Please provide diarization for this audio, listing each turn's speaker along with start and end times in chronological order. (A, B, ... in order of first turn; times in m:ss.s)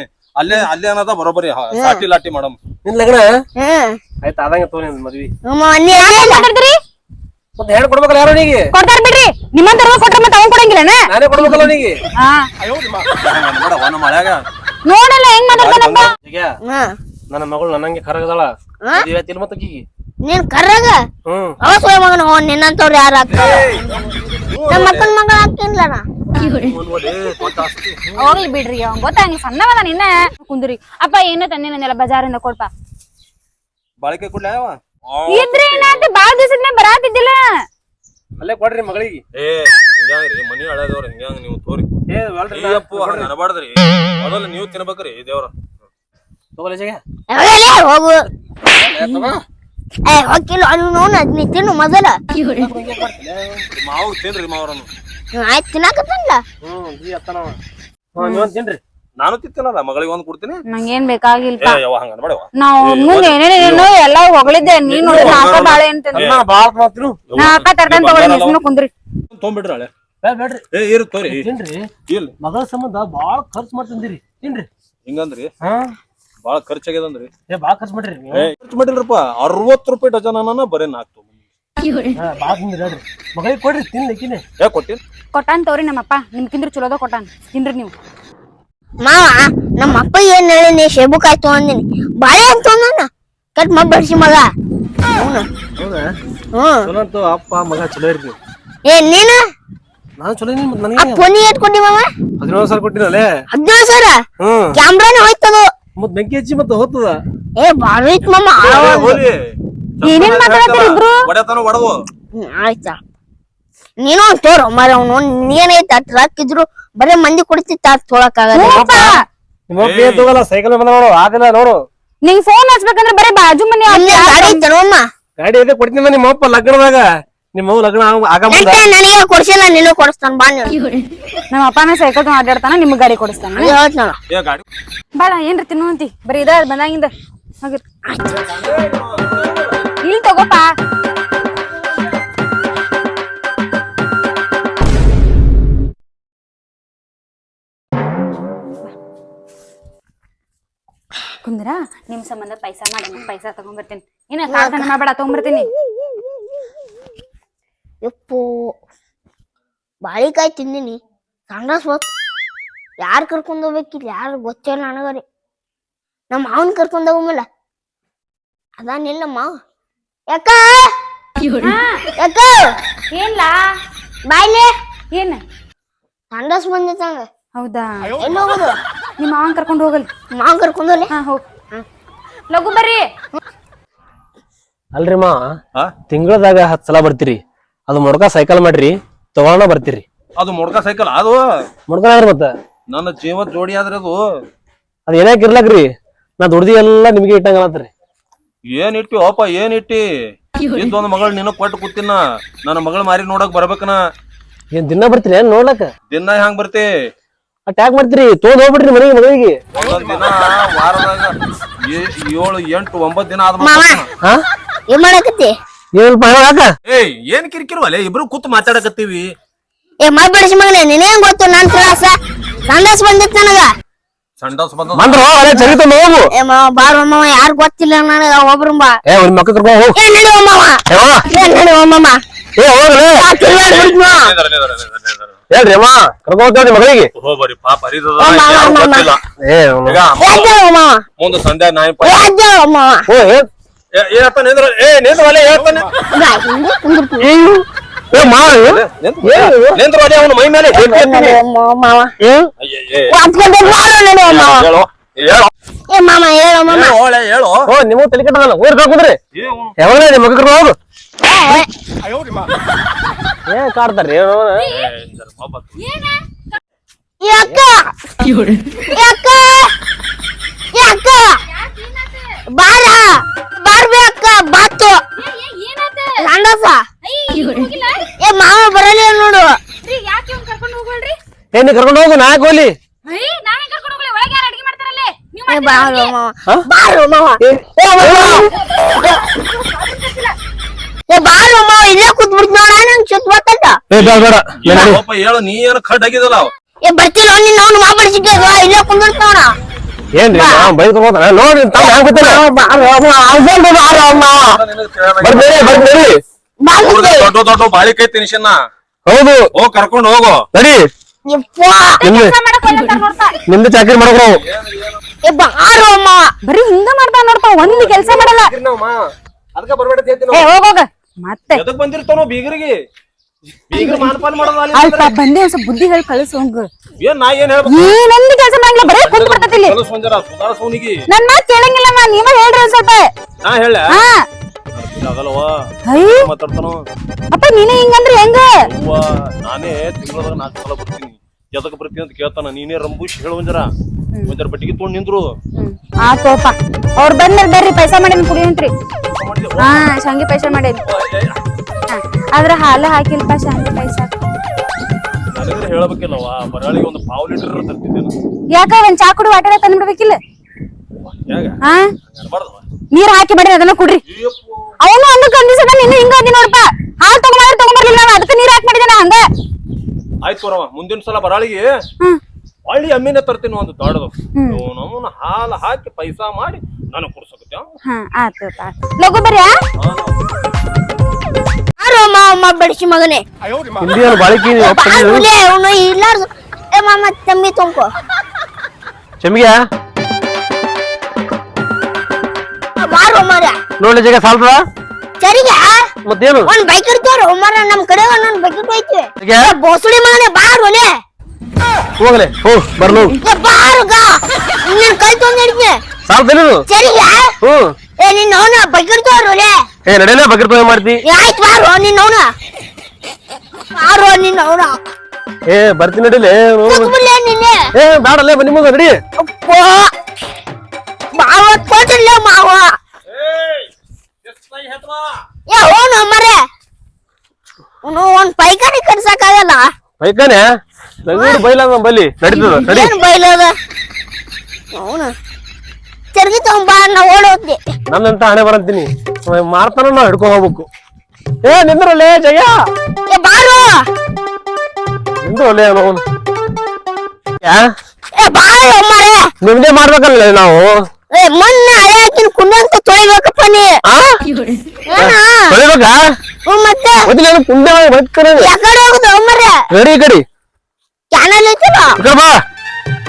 0:00.4-0:02.6 A
0:01.7-0:02.0 B
0:02.8-0:03.3 C
0:03.6-0:04.0 B
0:04.2-0:05.3 C
0:05.5-0:06.5 B
0:05.9-0:06.8 D
0:07.6-0:08.7 C
0:08.7-0:11.7 D
0:11.1-0:12.0 C
0:13.2-0:14.4 A
0:14.9-0:16.1 D
0:15.5-0:16.1 A
0:16.2-0:16.6 C
0:16.6-0:17.0 B
0:17.3-0:19.8 C
0:20.2-0:21.0 B
0:21.3-0:21.6 C
0:21.6-0:23.7 B
0:23.3-0:25.1 A
0:24.7-0:26.0 B
0:26.5-0:28.3 A
0:28.2-0:32.7 D
0:34.0-0:36.0 A
0:35.3-0:37.4 D
0:38.4-0:39.2 C
0:39.3-0:42.0 A
0:42.1-0:43.3 C
0:42.5-0:45.5 A
0:46.6-0:47.0 C
0:47.3-0:48.3 B
0:48.8-0:49.4 C
0:50.0-0:52.2 B
0:52.6-0:53.6 C
0:53.8-0:54.9 A
0:55.3-0:56.4 B
0:56.6-0:57.6 C
0:58.2-0:58.8 C
0:58.2-0:58.5 D
0:59.2-1:00.6 A
1:00.7-1:01.8 D
1:01.6-1:03.9 A
1:02.6-1:06.2 D
1:04.8-1:06.4 A
1:06.1-1:07.2 C
1:07.3-1:08.6 A
1:07.4-1:08.9 D
1:09.3-1:09.9 A
1:10.2-1:10.6 C
1:10.7-1:11.5 A
1:11.3-1:11.8 C
1:12.1-1:12.3 A
1:12.4-1:14.7 C
1:15.1-1:15.5 A
1:15.6-1:15.9 C
1:16.4-1:17.3 A
1:17.5-1:18.5 C
1:18.3-1:21.2 A
1:22.2-1:24.4 C
1:24.6-1:25.0 A
1:25.3-1:27.9 D
1:29.0-1:34.5 B
1:35.1-1:35.5 B
1:35.8-1:36.1 C
1:36.6-1:36.9 B
1:36.8-1:38.4 C
1:38.9-1:39.4 B
1:40.2-1:41.2 C
1:41.0-1:42.1 B
1:42.4-1:43.3 C
1:43.5-1:44.2 B
1:44.4-1:44.8 C
1:44.8-1:45.7 B
1:46.0-1:47.2 C
1:47.6-1:49.2 B
1:48.6-1:49.3 A
1:50.0-1:51.9 A
1:50.0-1:51.2 D
1:52.4-1:53.0 B
1:54.0-1:58.8 B
1:58.5-1:59.2 D
1:58.7-1:59.2 C
1:59.7-2:01.8 C
1:59.8-2:00.3 A
2:02.2-2:04.6 D
2:03.9-2:05.0 B
2:05.4-2:08.8 C
2:08.5-2:10.8 B
2:11.5-2:13.7 D
2:13.6-2:14.2 B
2:14.3-2:14.6 A
2:15.2-2:17.1 D
2:18.1-2:18.8 B
2:19.0-2:19.5 C
2:20.0-2:20.6 D
2:31.4-2:35.7 D
2:34.5-2:34.9 B
2:38.0-2:38.7 B
2:40.0-2:41.0 B
2:41.5-2:42.0 B
2:43.0-2:45.2 B
2:46.3-2:47.4 B
2:48.8-2:49.5 B
2:50.3-2:50.8 B
2:51.6-2:52.0 D
2:52.2-2:52.8 B
2:53.1-2:53.5 D
2:54.3-2:54.7 B
2:55.1-2:55.4 D
2:56.3-2:57.3 B
2:57.6-2:58.1 D
2:58.2-2:58.8 B
2:59.2-3:00.1 D
3:00.3-3:01.1 B
3:01.1-3:01.4 D
3:02.5-3:03.0 D
3:04.9-3:05.4 C
3:06.1-3:10.0 C
3:10.4-3:11.4 A
3:11.9-3:12.5 C
3:12.9-3:14.2 A
3:15.1-3:15.9 C
3:16.4-3:17.9 C
3:18.7-3:20.0 A
3:20.6-3:24.0 A
3:24.7-3:25.9 C
3:26.1-3:26.9 A
3:27.7-3:29.6 C
3:29.7-3:31.3 A
3:31.9-3:34.1 A
3:33.6-3:34.0 B
3:34.9-3:35.5 B
3:35.9-3:36.7 C
3:36.8-3:39.2 A
3:40.0-3:42.2 B
3:42.7-3:43.7 B
3:44.4-3:45.3 A
3:44.9-3:46.3 C
3:46.3-3:49.0 B
3:49.0-3:50.0 C
3:49.9-3:52.2 B
3:50.9-3:51.3 C
3:52.6-3:53.3 C
3:53.1-3:54.3 B
3:53.4-3:55.4 A
3:55.5-3:57.1 C
3:57.2-3:59.2 A
3:58.2-3:59.1 B
3:59.4-4:00.0 C
3:59.8-4:00.6 A
4:00.2-4:01.0 B
4:01.2-4:02.3 A
4:02.0-4:03.0 B
4:03.1-4:03.5 C
4:04.0-4:05.9 A
4:06.1-4:07.3 B
4:07.2-4:09.8 C
4:08.1-4:10.9 A
4:10.7-4:12.1 B
4:10.8-4:11.4 C
4:12.2-4:12.5 C
4:12.6-4:13.2 A
4:13.1-4:14.7 B
4:14.3-4:15.5 A
4:15.9-4:17.0 B
4:16.7-4:17.6 A
4:17.7-4:19.2 C
4:19.3-4:19.8 A
4:19.8-4:20.8 C
4:21.2-4:21.7 B
4:23.5-4:24.6 C
4:24.6-4:24.9 D
4:24.8-4:25.8 A
4:25.8-4:26.2 D
4:27.2-4:27.9 B
4:28.9-4:29.7 B
4:30.7-4:31.4 B
4:31.5-4:32.2 D
4:32.6-4:35.0 B
4:35.2-4:36.1 D
4:36.2-4:36.8 B
4:37.0-4:38.0 D
4:38.2-4:39.6 B
4:39.8-4:41.1 D
4:41.5-4:42.7 C
4:43.1-4:46.1 D
4:45.5-4:48.5 B
4:47.4-4:48.4 C
4:48.0-4:50.3 D
4:51.1-4:53.8 B
4:53.9-4:55.0 C
4:53.9-4:56.5 A
4:56.8-4:59.5 B
5:00.2-5:04.6 C
5:00.3-5:00.7 B
5:01.8-5:02.5 B
5:04.3-5:05.9 A
5:05.2-5:06.1 C
5:06.6-5:07.3 B
5:06.8-5:08.6 A
5:09.1-5:09.4 C
5:09.5-5:10.4 A
5:10.5-5:10.8 C
5:11.3-5:12.0 B
5:12.0-5:13.3 D
5:12.0-5:12.3 C
5:13.5-5:14.4 C
5:14.4-5:15.0 A
5:15.2-5:16.3 B
5:16.4-5:18.5 D
5:17.6-5:19.0 C
5:19.6-5:20.5 C
5:20.3-5:21.6 D
5:21.5-5:22.8 A
5:23.7-5:25.1 A
5:23.7-5:24.1 D
5:24.7-5:26.7 D
5:27.0-5:28.0 A
5:27.7-5:29.8 D
5:28.8-5:31.0 A
5:31.1-5:33.1 D
5:33.4-5:33.8 A
5:34.8-5:35.5 A
5:35.9-5:36.3 D
5:36.1-5:36.8 A
5:37.3-5:38.6 D
5:38.6-5:43.7 A
5:44.3-5:45.4 A
5:45.6-5:48.7 D
5:49.1-5:49.8 A
5:49.6-5:50.8 D
5:50.8-5:51.4 A
5:51.9-5:54.1 D
5:55.3-5:58.1 A
5:58.5-6:00.2 D
6:01.3-6:01.6 A
6:02.1-6:02.6 A
6:02.9-6:04.0 D
6:04.1-6:04.7 A
6:04.8-6:09.2 D
6:10.2-6:11.7 A
6:12.6-6:17.7 A
6:14.4-6:14.6 D
6:17.8-6:19.5 D
6:19.8-6:20.1 A
6:21.8-6:23.2 B
6:23.8-6:25.2 C
6:24.6-6:27.9 B
6:29.2-6:29.6 C
6:32.8-6:33.6 B
6:33.8-6:34.6 C
6:35.2-6:35.9 B
6:36.1-6:36.5 C
6:36.4-6:40.9 B
6:39.2-6:39.5 C
6:42.0-6:43.2 C
6:43.2-6:45.8 B
6:46.1-6:46.6 C
6:46.7-6:47.3 B
6:47.4-6:47.7 C
6:48.0-6:49.6 B
6:49.8-6:51.0 C
6:51.1-6:52.3 B
6:53.7-6:54.8 B
6:55.5-6:56.9 C
6:56.7-6:57.6 B
6:57.8-6:59.0 C
6:59.2-6:59.9 B
7:01.1-7:02.7 B
7:03.1-7:03.7 A
7:04.2-7:05.2 A
7:05.5-7:06.4 B
7:07.8-7:09.7 B
7:10.0-7:10.4 C
7:11.0-7:12.9 C
7:11.1-7:11.4 B
7:12.3-7:13.5 B
7:14.7-7:15.1 B
7:16.1-7:17.6 B
7:17.9-7:20.7 C
7:21.4-7:22.6 C
7:23.1-7:23.8 B
7:25.2-7:26.0 C
7:27.4-7:27.7 C
7:28.1-7:29.3 B
7:29.4-7:30.9 C
7:31.1-7:33.8 B
7:33.8-7:34.2 C
7:34.8-7:35.6 B
7:35.0-7:36.0 C
7:36.4-7:37.1 B
7:37.1-7:38.5 C
7:38.4-7:39.6 B
7:39.7-7:40.2 C
7:41.1-7:42.0 B
7:42.0-7:42.4 C